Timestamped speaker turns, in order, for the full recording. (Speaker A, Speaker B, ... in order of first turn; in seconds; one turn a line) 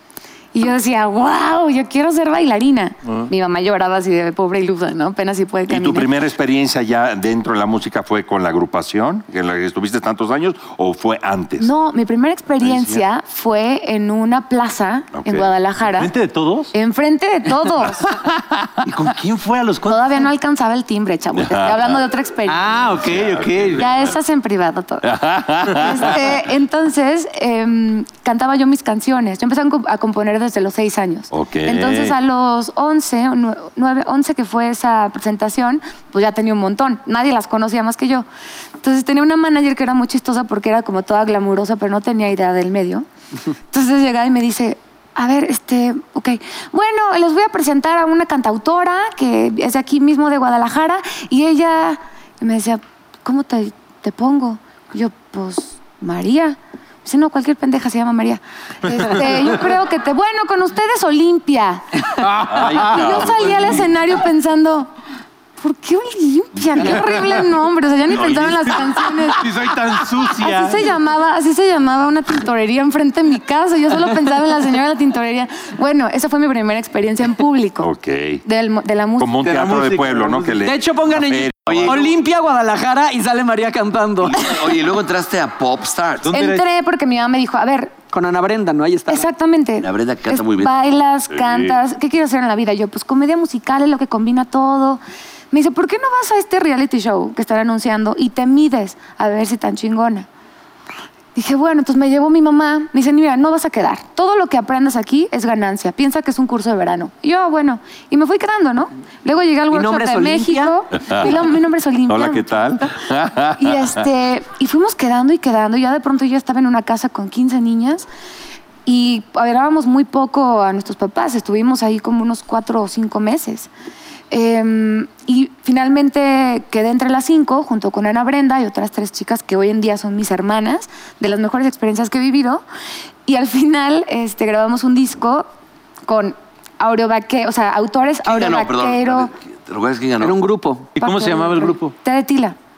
Speaker A: 0.5-6.1
Speaker B: 5.7-11.7
Speaker A: 11.6-16.1
Speaker B: 12.6-13.0
Speaker B: 15.2-15.5
Speaker C: 15.9-16.7
Speaker A: 16.7-18.1
Speaker C: 18.8-20.3
Speaker A: 19.8-22.7
Speaker B: 21.4-22.0
Speaker C: 22.5-23.9
Speaker B: 22.9-23.9
Speaker A: 23.7-25.1
Speaker B: 25.0-26.3
Speaker A: 25.7-38.2
Speaker B: 31.3-32.1
Speaker A: 38.8-43.0
Speaker A: 43.7-64.9
Speaker C: 58.9-59.5
Speaker C: 62.2-63.1
Speaker B: 62.5-63.9
Speaker A: 65.6-69.5
Speaker B: 66.8-67.1
Speaker B: 68.1-68.8
Speaker C: 69.3-70.9
Speaker A: 70.4-77.9
Speaker B: 77.8-78.4
Speaker A: 78.4-79.4
Speaker B: 79.2-82.0
Speaker C: 79.4-80.6
Speaker D: 80.6-84.6
Speaker E: 81.7-81.9
Speaker E: 84.2-86.3
Speaker C: 86.2-86.7
Speaker A: 86.3-87.9
Speaker D: 88.1-89.3
Speaker A: 89.1-95.0
Speaker E: 89.8-90.7
Speaker B: 91.3-91.8
Speaker A: 95.5-100.3
Speaker A: 101.3-112.9
Speaker D: 109.7-110.7
Speaker B: 111.1-111.3
Speaker B: 112.1-114.0
Speaker A: 113.5-118.1
Speaker A: 118.8-123.7
Speaker A: 124.3-132.6
Speaker A: 133.2-135.5
Speaker A: 136.1-139.3
Speaker E: 138.2-140.3
Speaker D: 140.2-140.9
Speaker C: 140.9-141.9
Speaker A: 141.0-142.6